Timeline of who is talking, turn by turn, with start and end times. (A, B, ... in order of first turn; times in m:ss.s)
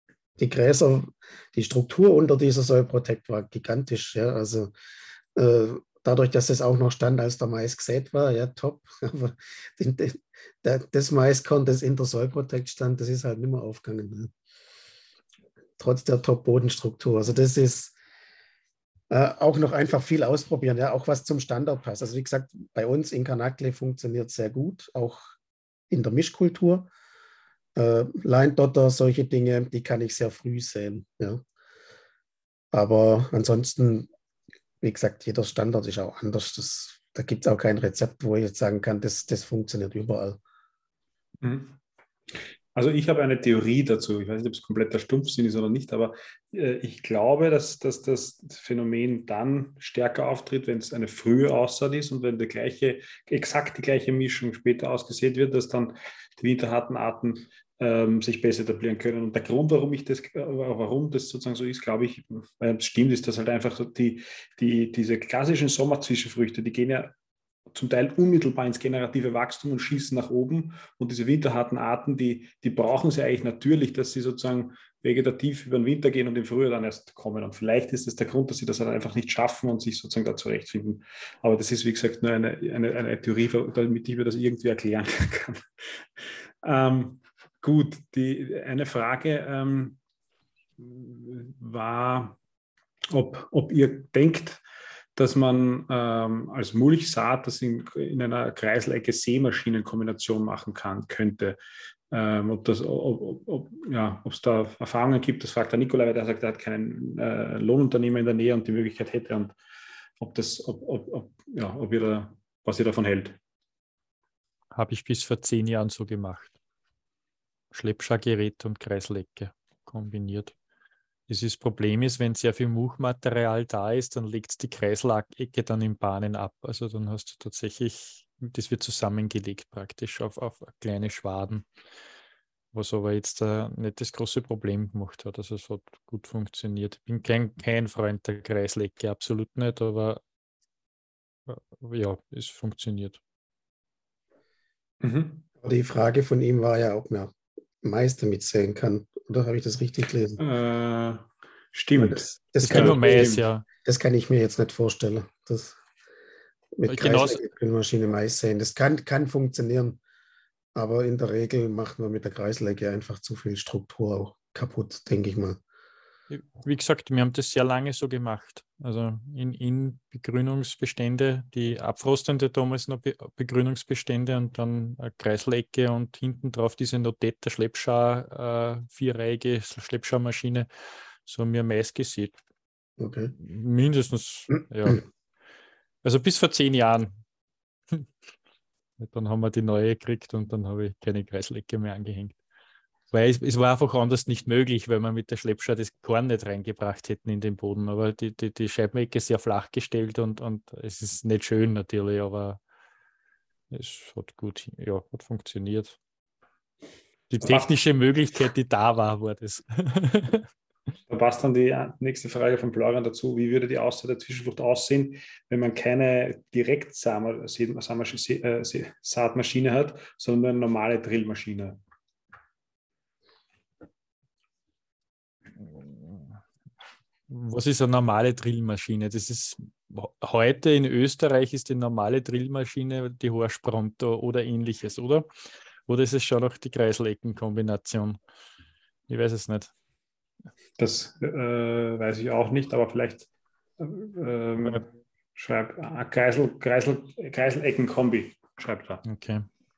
0:00.4-0:04.7 A
0:05.3-0:14.3 A
0:15.8-0:17.9 A
0:19.1-0:25.3 A
0:25.9-0:26.9 A
0:27.8-0:31.4 A
0:32.7-0:34.1 A
0:34.8-0:40.4 A
0:41.4-0:41.8 B
0:42.7-1:07.1 B
1:07.7-1:30.0 B
1:30.8-1:32.4 B
1:33.1-1:34.6 B
1:35.2-1:41.6 B
1:42.1-1:49.5 B
1:50.2-1:53.4 B
1:54.7-1:56.5 C
1:57.7-2:00.5 C
2:01.3-2:11.6 C
2:12.7-2:20.2 C
2:21.5-2:23.2 C
2:25.0-2:25.4 B
2:25.6-2:30.4 A
2:30.4-2:33.4 B
2:32.0-2:35.8 A
2:32.6-2:33.6 C
2:36.8-2:40.0 A
2:36.9-2:37.4 C
2:40.7-2:45.6 A
2:46.3-3:00.7 C
3:01.2-3:02.4 C
3:03.0-3:03.3 A
3:03.3-3:05.0 C
3:06.0-3:07.2 C
3:09.0-3:12.3 C
3:13.1-3:22.6 C
3:23.7-3:26.0 C
3:27.3-3:30.5 C
3:31.1-3:41.8 B
3:45.6-3:46.3 C
3:47.3-3:55.3 C
3:55.9-3:58.2 C
3:59.1-3:59.7 C
4:00.8-4:09.0 B
4:09.0-4:09.4 C